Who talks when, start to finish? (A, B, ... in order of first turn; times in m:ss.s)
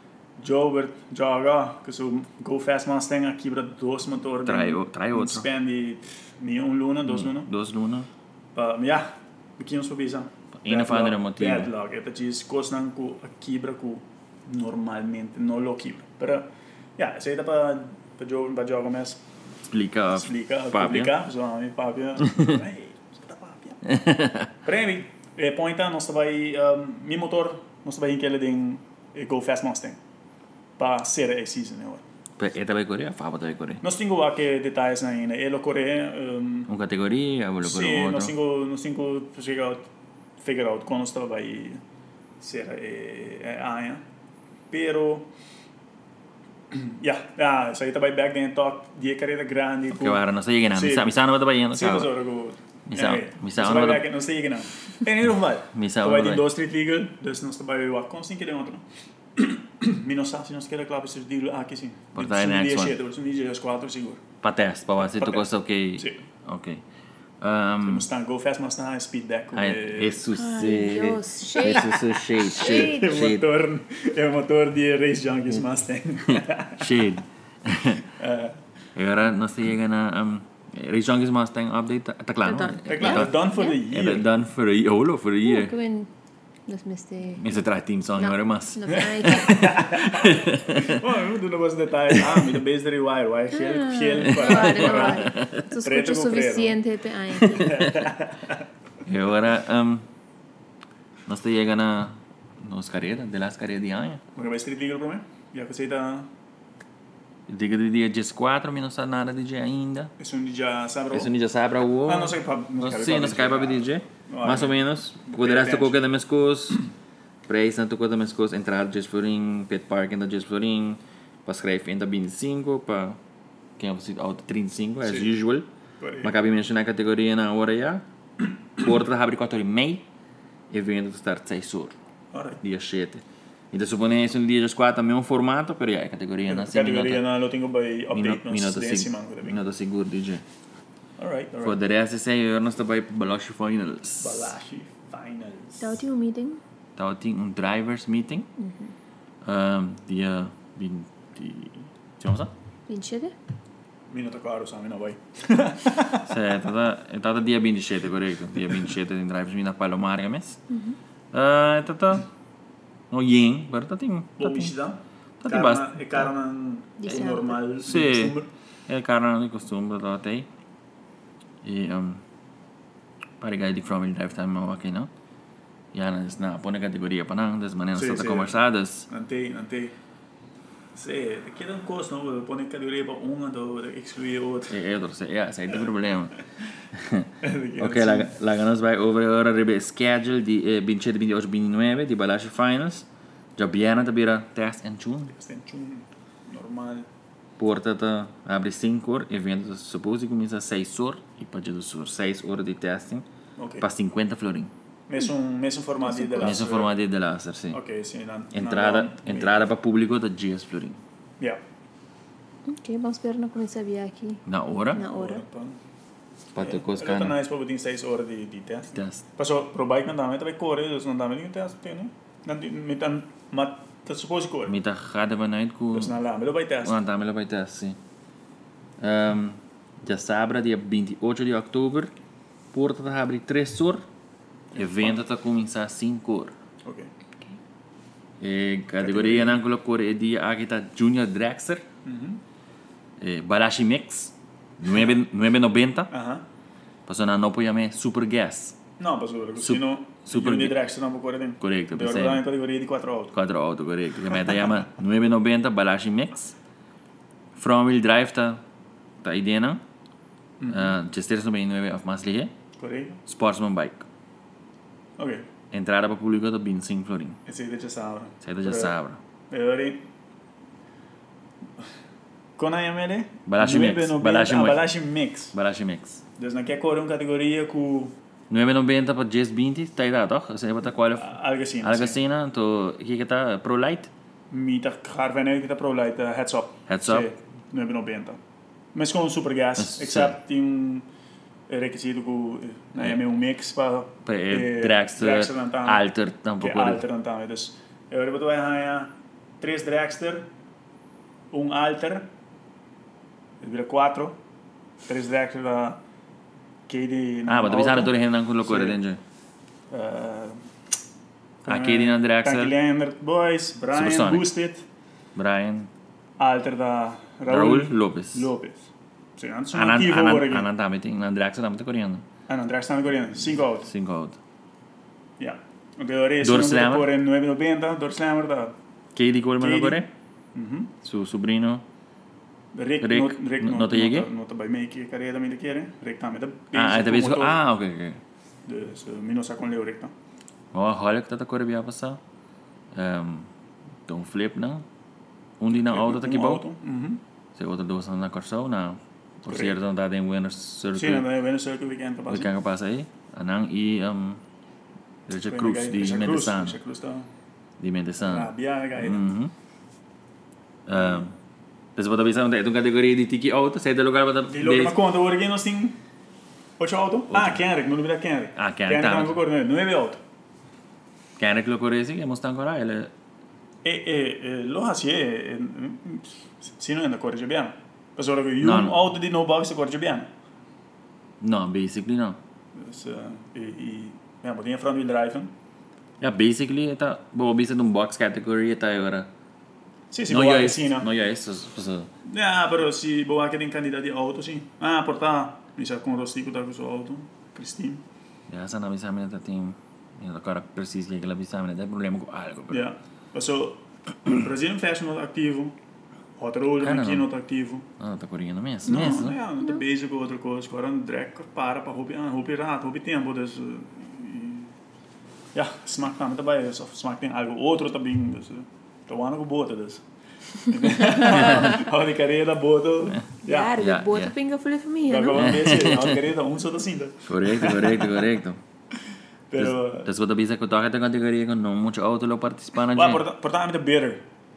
0:00.4-0:07.5 A
0:04.4-0:05.5 B
0:07.1-0:08.1 B
0:08.6-0:19.2 A
0:10.6-0:11.7 B
0:19.7-0:21.2 B
0:20.1-0:23.8 A
0:22.3-0:22.5 B
0:23.8-0:24.5 B
0:24.6-0:30.0 A
0:30.8-0:32.0 A
0:32.4-0:33.8 B
0:33.8-0:36.7 A
0:36.7-0:38.3 B
0:37.6-0:39.9 A
0:40.4-0:41.8 A
0:42.4-0:44.0 A
0:44.7-0:45.3 A
0:46.7-0:51.1 A
0:49.9-0:52.1 B
0:51.7-0:58.8 A
0:52.9-0:54.1 B
0:55.7-0:56.5 B
0:59.4-1:04.2 A
1:02.2-1:03.0 B
1:04.4-1:06.8 B
1:05.1-1:06.2 A
1:07.4-1:08.1 B
1:07.8-1:10.3 A
1:09.5-1:13.5 B
1:10.3-1:13.1 C
1:12.4-1:17.0 A
1:16.3-1:18.1 B
1:18.2-1:18.6 A
1:19.0-1:25.7 B
1:22.4-1:23.8 C
1:22.9-1:24.3 A
1:25.4-1:26.1 C
1:26.7-1:27.5 C
1:27.4-1:31.0 B
1:28.2-1:29.7 C
1:28.9-1:36.8 A
1:32.1-1:32.4 B
1:33.5-1:38.0 C
1:34.2-1:35.7 B
1:37.4-1:38.6 A
1:39.0-1:40.1 B
1:41.3-1:44.2 B
1:44.4-1:46.3 A
1:47.5-1:50.1 B
1:50.2-1:51.3 A
1:51.1-1:56.9 B
1:52.1-1:56.1 A
1:57.5-2:03.2 B
2:03.8-2:05.7 B
2:05.0-2:05.3 A
2:06.0-2:06.3 A
2:06.2-2:08.1 B
2:08.8-2:10.1 B
2:10.7-2:12.0 B
2:12.3-2:12.6 A
2:12.6-2:17.2 B
2:16.5-2:19.6 A
2:18.1-2:20.4 B
2:21.2-2:21.8 A
2:21.6-2:24.5 B
2:24.2-2:26.0 A
2:25.8-2:26.6 C
2:27.0-2:28.5 B
2:28.6-2:28.9 C
2:29.4-2:32.5 B
2:32.9-2:33.4 C
2:34.1-2:36.3 A
2:36.2-2:40.6 B
2:40.7-2:41.0 C
2:41.3-2:42.3 B
2:43.1-2:44.7 B
2:44.4-2:48.5 A
2:45.4-2:46.3 B
2:47.0-2:47.6 C
2:47.8-2:48.4 B
2:48.9-2:50.5 B
2:51.6-2:52.2 B
2:53.4-2:55.1 B
2:55.9-2:59.1 B
2:58.0-3:00.0 A
3:00.9-3:04.8 A
3:04.7-3:06.4 B
3:06.9-3:15.3 B
3:07.4-3:08.4 A
3:15.3-3:17.1 A
3:17.6-3:23.3 B
3:23.6-3:23.9 A
3:23.8-3:24.7 B
3:25.1-3:26.9 A
3:26.0-3:26.6 C
3:26.4-3:27.8 B
3:27.7-3:29.5 A
3:28.5-3:31.0 B
3:32.7-3:35.4 C
3:34.4-3:35.0 B
3:34.9-3:35.8 A
3:36.6-3:37.4 B
3:36.6-3:44.8 A
3:38.9-3:39.2 B
3:44.7-3:46.2 B
3:45.9-3:47.0 A
3:46.8-3:48.0 B
3:49.0-3:52.1 B
3:52.7-3:54.0 B
3:54.8-3:56.5 B
3:54.8-3:55.1 A
3:56.8-3:57.1 A
3:58.4-4:01.9 B
3:59.0-3:59.6 A
4:02.0-4:02.4 A
4:03.2-4:06.1 B
4:06.1-4:06.4 A
4:07.1-4:08.8 B
4:09.0-4:13.4 A
4:09.6-4:10.8 B
4:11.6-4:12.5 B
4:13.3-4:16.6 B
4:17.6-4:18.6 B
4:19.2-4:19.8 B
4:20.6-4:21.0 A
4:20.7-4:22.5 B
4:22.8-4:23.2 A
4:23.3-4:24.1 B
4:25.2-4:25.5 A
4:25.7-4:27.4 B
4:27.5-4:29.0 A
4:28.4-4:29.2 B
4:29.5-4:30.0 A
4:32.6-4:35.5 A
4:33.5-4:34.9 B
4:35.5-4:36.2 B
4:36.4-4:38.2 A
4:38.5-4:44.1 B
4:41.2-4:42.2 A
4:44.5-4:48.4 A
4:46.9-4:47.3 B
4:48.9-4:51.1 A
4:49.8-4:50.4 B
4:51.7-4:56.0 A
4:54.2-4:57.0 B
4:56.6-5:00.5 A
5:01.5-5:02.3 A
5:03.6-5:04.4 A
5:05.1-5:06.0 A
5:06.9-5:09.0 A
5:07.5-5:09.2 B
5:09.9-5:10.6 A
5:11.6-5:14.8 A
5:11.6-5:12.7 B
5:13.9-5:14.5 B
5:15.4-5:15.9 B
5:16.4-5:20.7 A
5:17.5-5:18.5 B
5:19.7-5:22.3 B
5:22.5-5:23.9 A
5:23.8-5:24.4 B
5:25.4-5:28.8 A
5:26.4-5:27.1 B
5:29.2-5:30.1 B
5:29.6-5:31.0 A
5:31.0-5:31.8 B
5:32.7-5:37.6 A
5:33.0-5:34.3 B
5:36.7-5:38.2 B
5:38.7-5:40.1 A
5:40.7-5:42.2 B
5:42.9-5:43.5 B
5:44.1-5:44.9 B
5:45.6-5:46.6 B
5:45.7-5:47.2 A
5:47.6-5:51.3 B
5:49.5-5:49.8 A
5:51.0-5:52.5 A
5:52.3-5:54.4 B
5:55.3-5:56.8 B
5:55.4-5:57.3 A
5:57.8-5:59.5 B
5:58.2-5:59.2 A
6:00.9-6:01.4 B
6:00.9-6:01.3 A
6:02.0-6:05.0 B
6:04.5-6:06.0 A
6:06.8-6:10.2 A
6:07.3-6:07.6 B
6:08.6-6:09.4 B
6:11.4-6:13.1 B
6:13.8-6:20.3 A
6:18.6-6:19.0 B
6:21.4-6:22.4 B
6:22.8-6:25.5 A
6:26.2-6:29.3 B
6:30.1-6:31.1 A
6:30.3-6:32.1 B
6:32.3-6:38.0 A
6:38.5-6:42.9 B
6:42.7-6:45.8 A
6:46.4-6:47.9 A
6:46.8-6:47.3 B
6:48.0-6:49.4 B
6:48.8-6:54.7 A
6:55.5-7:00.0 A
7:00.6-7:03.7 A
7:01.3-7:01.6 B
7:03.4-7:05.8 C
7:03.8-7:04.4 B
7:05.1-7:08.2 A
7:05.4-7:06.2 B
7:07.3-7:08.6 B
7:09.5-7:10.1 A
7:09.6-7:13.2 B
7:12.9-7:14.2 A